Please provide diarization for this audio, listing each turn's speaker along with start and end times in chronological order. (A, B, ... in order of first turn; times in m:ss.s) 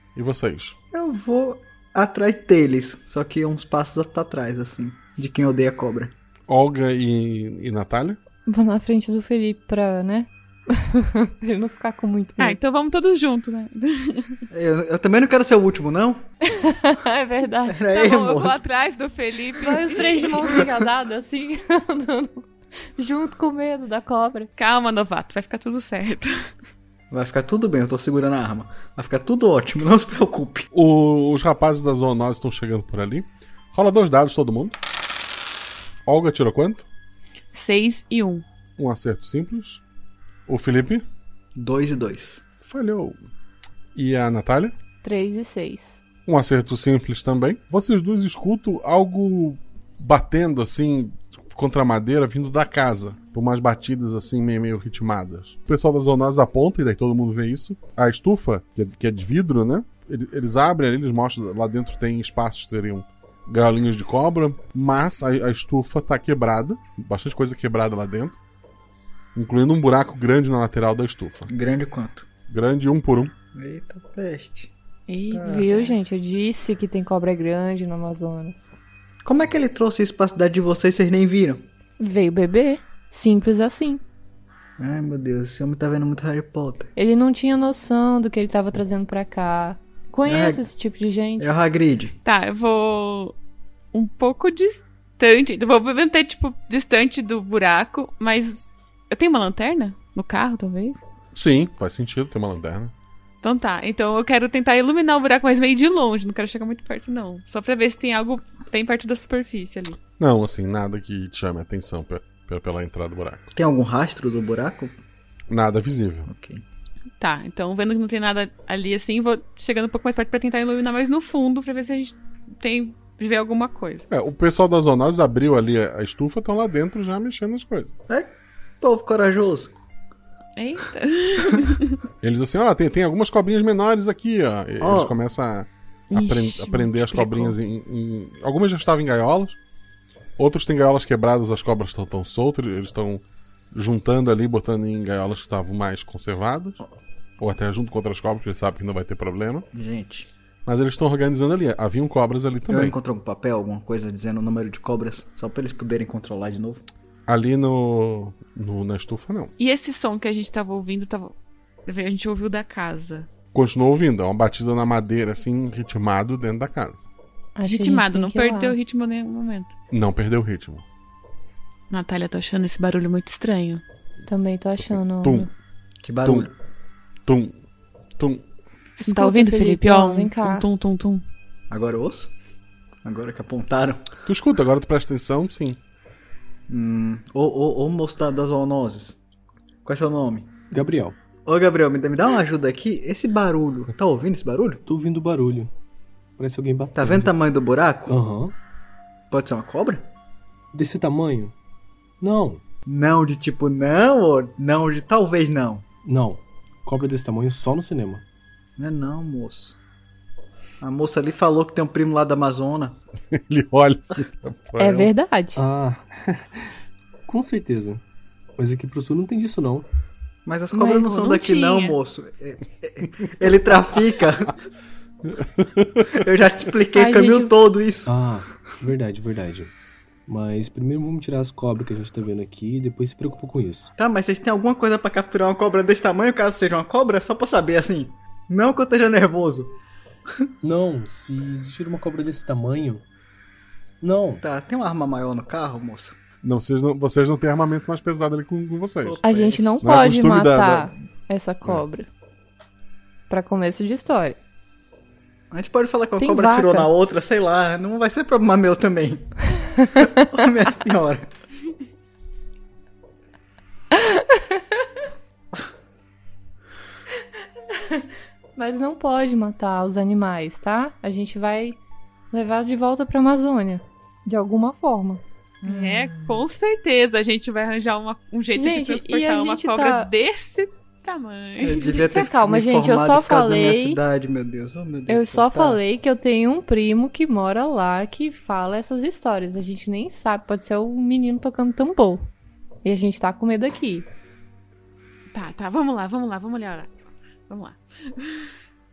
0:00.1-0:00.8 A
0:00.9-0:06.1 B
0:06.5-0:08.2 A
0:08.4-0:12.6 C
0:12.4-0:14.4 D
0:14.5-0:16.2 B
0:16.6-0:17.8 C
0:17.7-0:18.6 B
0:17.9-0:20.3 D
0:19.6-0:24.5 C
0:24.6-0:26.5 D
0:27.1-0:30.7 B
0:30.7-0:34.8 A
0:36.0-0:36.8 A
0:37.5-0:38.4 D
0:38.8-0:39.8 A
0:40.5-0:41.0 A
0:41.6-0:42.4 B
0:42.6-0:43.2 A
0:43.9-0:44.7 A
0:45.0-0:46.0 C
0:46.2-1:08.4 A
1:09.3-1:11.5 A
1:11.5-1:12.3 B
1:12.5-1:13.3 A
1:13.5-1:14.7 B
1:15.1-1:15.9 D
1:15.3-1:15.7 B
1:15.4-1:18.7 C
1:19.2-1:21.6 B
1:22.0-1:24.0 C
1:24.8-1:26.9 B
1:27.0-1:31.5 C
1:30.2-1:30.6 B
1:31.4-1:32.2 B
1:32.2-1:33.3 D
1:33.9-1:41.0 D
1:41.3-1:42.9 A
1:43.4-1:50.0 D
1:50.2-1:53.4 A
1:53.5-1:55.0 B
1:55.5-1:56.3 A
1:56.2-1:56.6 B
1:57.2-2:04.0 D
2:04.1-2:07.9 A
2:08.8-2:09.7 B
2:10.6-2:12.0 D
2:12.2-2:19.6 A
2:14.8-2:15.1 B
2:16.1-2:17.6 D
2:20.4-2:26.8 A
2:27.4-2:29.6 A
2:29.7-2:30.3 B
2:30.6-2:32.9 A
2:32.7-2:36.8 B
2:37.3-2:39.5 A
2:39.6-2:41.3 D
2:41.8-2:43.3 D
2:43.5-2:47.1 A
2:47.6-2:48.7 C
2:47.6-2:49.7 D
2:49.9-2:50.8 A
2:51.9-2:53.8 D
2:54.3-2:55.5 C
2:54.8-2:55.5 A
2:56.0-2:56.5 B
2:56.2-2:56.5 A
2:57.2-2:57.6 A
2:58.2-2:58.4 A
2:59.0-3:01.2 D
2:59.0-3:00.6 C
3:01.7-3:02.3 B
3:03.0-3:04.0 B
3:04.2-3:05.8 A
3:06.7-3:09.2 B
3:09.8-3:10.5 B
3:10.7-3:11.2 E
3:11.4-3:14.8 B
3:14.8-3:15.7 E
3:16.4-3:17.3 E
3:16.9-3:18.2 B
3:18.1-3:18.5 E
3:19.3-3:20.0 B
3:20.7-3:21.5 E
3:22.2-3:22.6 E
3:22.9-3:25.8 B
3:26.0-3:28.2 E
3:28.8-3:29.8 B
3:30.8-3:33.0 B
3:33.3-3:35.1 A
3:34.8-3:35.6 C
3:35.6-3:36.4 E
3:37.3-3:38.0 E
3:38.6-3:39.9 E
3:40.4-3:44.5 B
3:40.7-3:41.0 C
3:40.8-3:42.0 D
3:45.4-3:46.1 A
3:46.1-3:48.1 B
3:46.9-3:47.5 C
3:48.1-3:49.7 E
3:50.3-3:53.9 E
3:54.0-3:59.7 B
4:00.6-4:03.0 E
4:04.0-4:04.4 E
4:04.4-4:06.2 B
4:06.4-4:09.2 A
4:09.0-4:09.8 B
4:09.2-4:12.1 C
4:09.8-4:10.9 A
4:13.3-4:14.4 C
4:15.5-4:19.3 B
4:16.2-4:16.9 C
4:19.8-4:20.1 C
4:20.0-4:21.3 B
4:24.0-4:24.4 C
4:27.8-4:28.0 C
4:28.6-4:31.8 C
4:32.3-4:35.2 C
4:35.6-4:36.4 B
4:35.6-4:42.2 D
4:38.5-4:40.1 C
4:41.6-4:45.8 B
4:41.9-4:44.0 C
4:45.1-4:52.3 C
4:52.8-4:54.1 C
4:55.3-4:56.9 D
4:57.5-4:58.5 D